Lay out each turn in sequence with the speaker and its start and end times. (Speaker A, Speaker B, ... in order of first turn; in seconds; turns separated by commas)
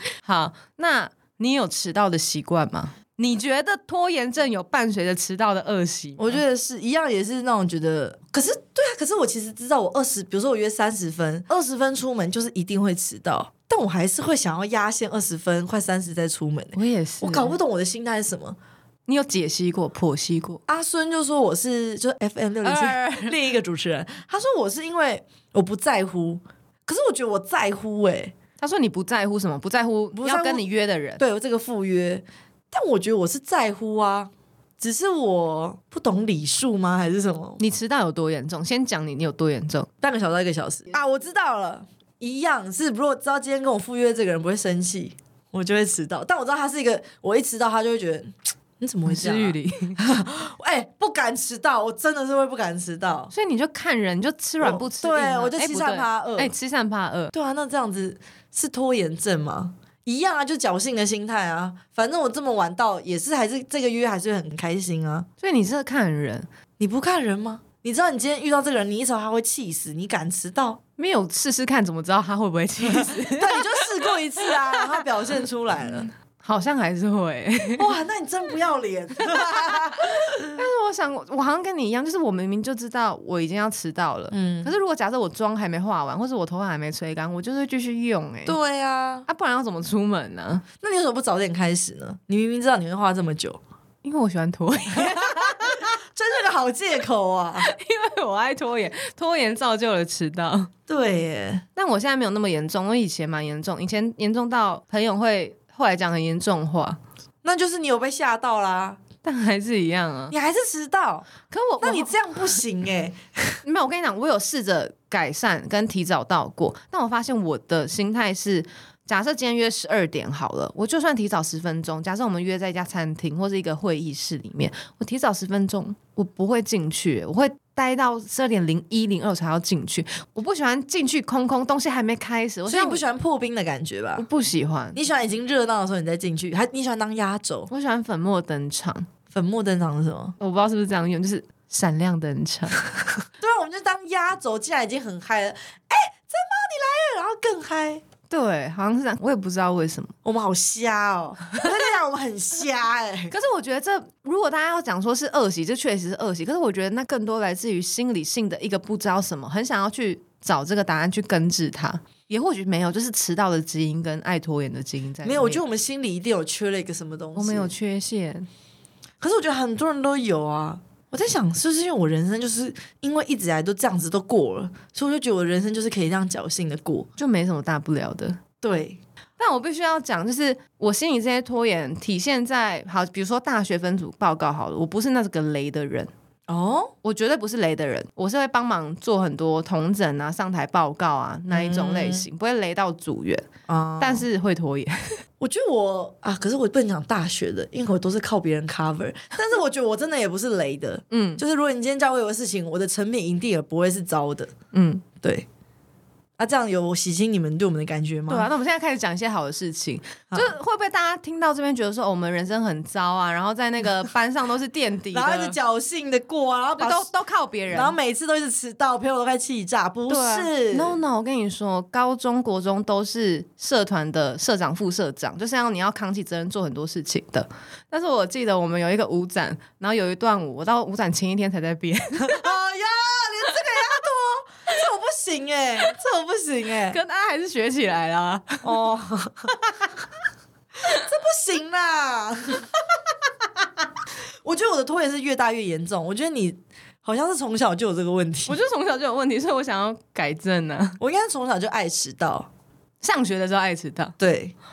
Speaker A: 0.2-6.4, Speaker B: 6.2-18.6, Speaker A: 16.7-17.6, Speaker A: 19.1-20.6, Speaker B: 20.7-28.3, Speaker A: 22.6-23.3, Speaker A: 28.6-31.2, Speaker B: 30.1-30.6, Speaker B: 31.2-37.6, Speaker A: 37.6-39.9, Speaker B: 40.0-53.3, Speaker A: 49.0-50.0, Speaker A: 53.3-57.3, Speaker B: 54.6-56.5, Speaker B: 57.3-65.3, Speaker A: 65.4-66.5, Speaker B: 66.8-70.8, Speaker A: 71.0-75.0, Speaker B: 72.9-76.1, Speaker A: 76.4-77.9, Speaker B: 77.8-80.6, Speaker A: 79.3-88.5, Speaker B: 84.3-84.7, Speaker B: 88.5-89.3, Speaker A: 89.3-90.6, Speaker B: 90.8-93.6, Speaker A: 94.0-95.9, Speaker B: 95.0-97.7, Speaker A: 97.6-100.7, Speaker B: 100.9-101.6, Speaker A: 101.8-107.0, Speaker B: 107.4-109.0, Speaker A: 109.2-110.3, Speaker B: 110.3-111.3, Speaker A: 111.5-112.1, Speaker B: 111.8-113.6, Speaker A: 113.6-133.0, Speaker B: 132.7-134.2, Speaker A: 134.2-135.0, Speaker B: 134.9-137.7, Speaker A: 137.7-139.1, Speaker B: 139.3-140.3, Speaker A: 140.4-142.8, Speaker B: 143.4-148.0, Speaker A: 148.3-150.1, Speaker B: 150.2-153.3, Speaker A: 153.3-165.6, Speaker B: 165.2-167.7, Speaker A: 167.3-168.5, Speaker B: 169.2-177.1, Speaker A: 177.2-178.4, Speaker B: 178.6-179.0, Speaker A: 179.4-186.1, Speaker B: 186.5-186.9, Speaker A: 187.0-193.5, Speaker B: 191.5-192.2, Speaker B: 193.7-194.2, Speaker A: 194.0-195.2, Speaker B: 195.4-204.5, Speaker A: 201.1-201.4, Speaker A: 204.7-205.0, Speaker B: 206.4-208.5, Speaker A: 208.3-215.6, Speaker B: 215.1-217.1, Speaker A: 216.8-217.9, Speaker B: 217.7-221.0, Speaker A: 220.1-232.5, Speaker B: 232.2-237.0, Speaker A: 236.9-238.8, Speaker B: 238.6-239.5, Speaker B: 240.9-242.8, Speaker B: 244.4-248.6, Speaker A: 248.5-251.0, Speaker B: 251.0-252.5, Speaker A: 253.0-254.2, Speaker B: 254.2-254.5